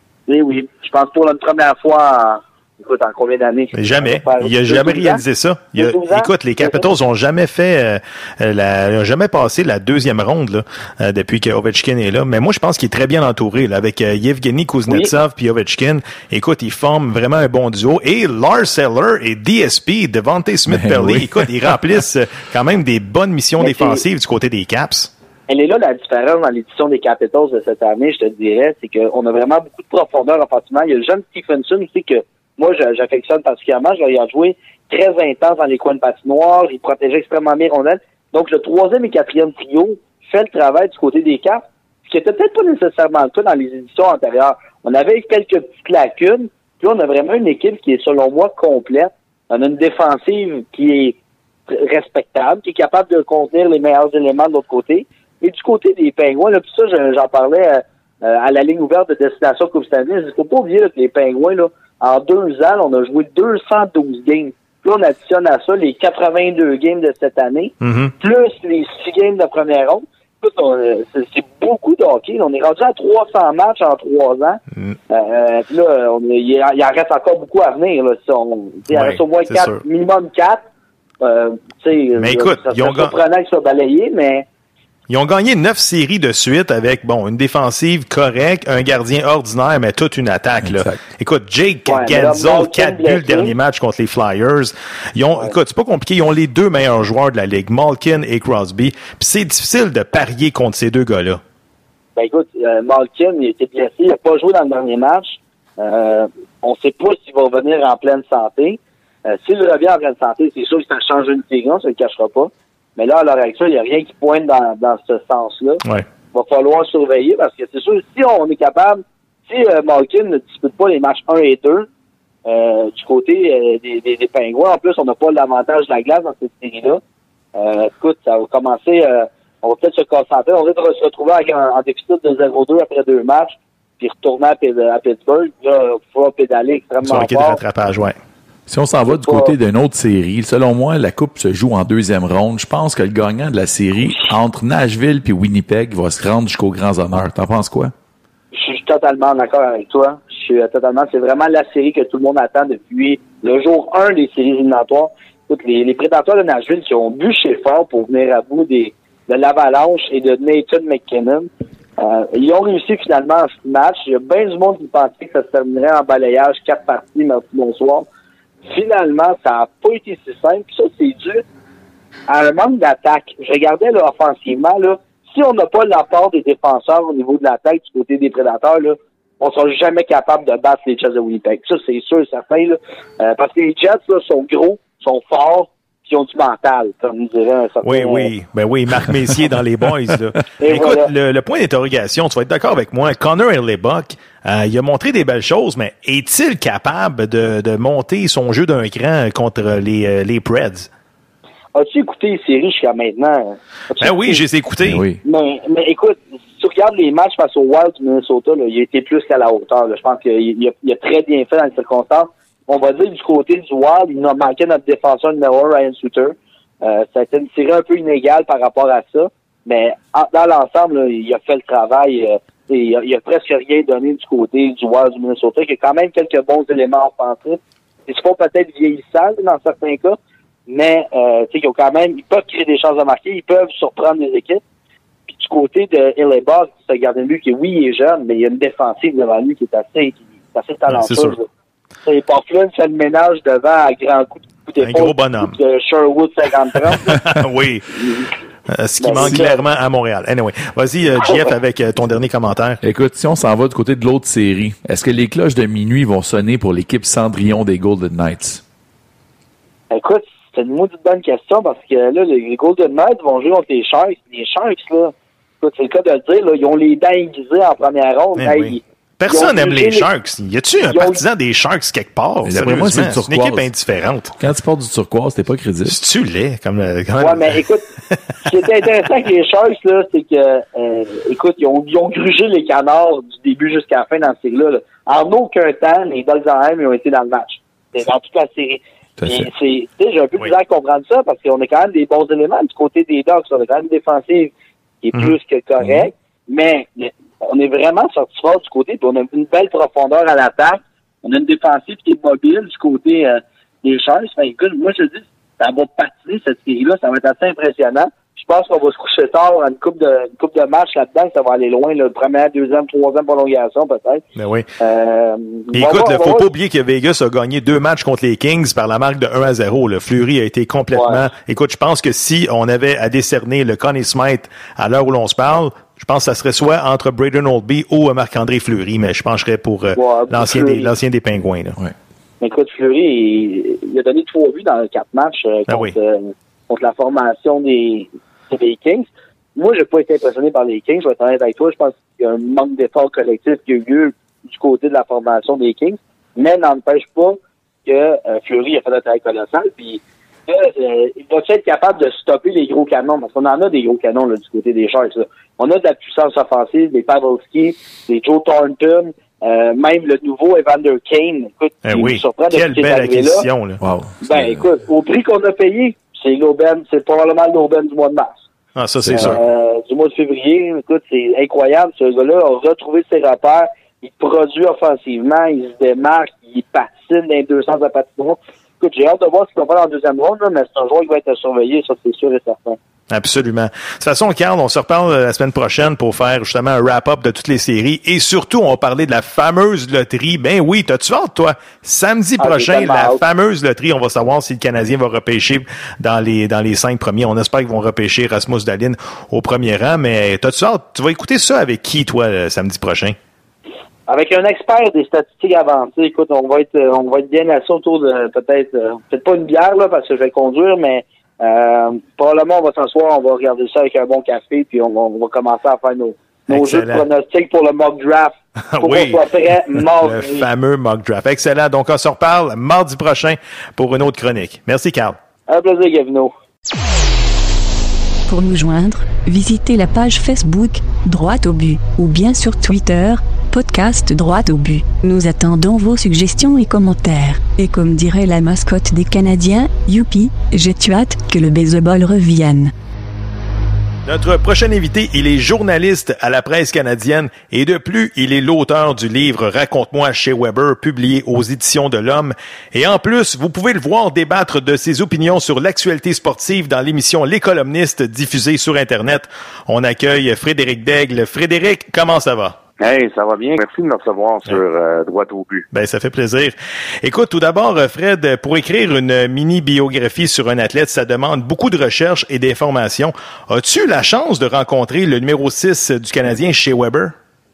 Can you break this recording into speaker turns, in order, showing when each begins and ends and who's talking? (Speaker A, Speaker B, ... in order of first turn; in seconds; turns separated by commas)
Speaker A: 0.3-5.2, Speaker B: 3.8-25.1, Speaker A: 5.8-6.9, Speaker C: 20.7-21.5, Speaker A: 23.6-24.0, Speaker A: 25.5-51.2, Speaker A: 51.7-80.6, Speaker B: 67.8-68.1, Speaker B: 78.9-79.8, Speaker A: 81.2-84.5, Speaker B: 82.2-83.1, Speaker B: 85.1-101.4, Speaker C: 90.6-91.0, Speaker A: 91.9-93.5, Speaker A: 102.2-115.8, Speaker A: 116.3-121.9, Speaker A: 122.5-127.0, Speaker A: 127.6-137.6, Speaker B: 137.0-138.2, Speaker C: 138.7-147.9, Speaker A: 139.1-139.5, Speaker A: 148.5-168.1, Speaker A: 168.7-171.4, Speaker A: 172.3-188.3, Speaker B: 187.8-200.9, Speaker A: 190.6-191.1, Speaker A: 201.8-204.4, Speaker B: 204.0-205.0, Speaker C: 204.8-205.2, Speaker A: 205.2-230.2, Speaker A: 230.7-234.6, Speaker A: 235.3-241.5, Speaker B: 240.9-241.4, Speaker A: 242.1-247.2, Speaker B: 244.8-245.6, Speaker B: 247.1-248.0, Speaker B: 248.7-252.8, Speaker A: 249.0-249.6, Speaker C: 249.2-249.4, Speaker C: 252.8-258.6, Speaker A: 259.9-270.1, Speaker B: 268.4-274.3, Speaker A: 270.9-271.2, Speaker C: 272.4-273.7, Speaker C: 274.4-275.9, Speaker B: 275.9-277.6, Speaker A: 277.2-277.9, Speaker A: 278.4-314.2, Speaker C: 289.2-289.5, Speaker C: 295.8-296.1, Speaker B: 314.4-314.7, Speaker A: 314.8-316.5, Speaker B: 315.7-331.8, Speaker A: 320.9-321.2, Speaker A: 330.0-330.9, Speaker A: 332.4-363.5, Speaker B: 335.7-335.9, Speaker B: 361.9-363.8, Speaker C: 363.8-364.7, Speaker A: 364.2-368.4, Speaker B: 368.8-369.4, Speaker C: 369.0-369.4, Speaker A: 369.1-382.8, Speaker B: 383.1-403.2, Speaker A: 392.4-393.2, Speaker A: 404.1-420.5, Speaker B: 416.5-417.1, Speaker B: 418.7-425.2, Speaker A: 425.5-426.3, Speaker D: 428.3-442.7, Speaker B: 444.1-462.6, Speaker E: 462.8-465.7, Speaker B: 465.7-477.1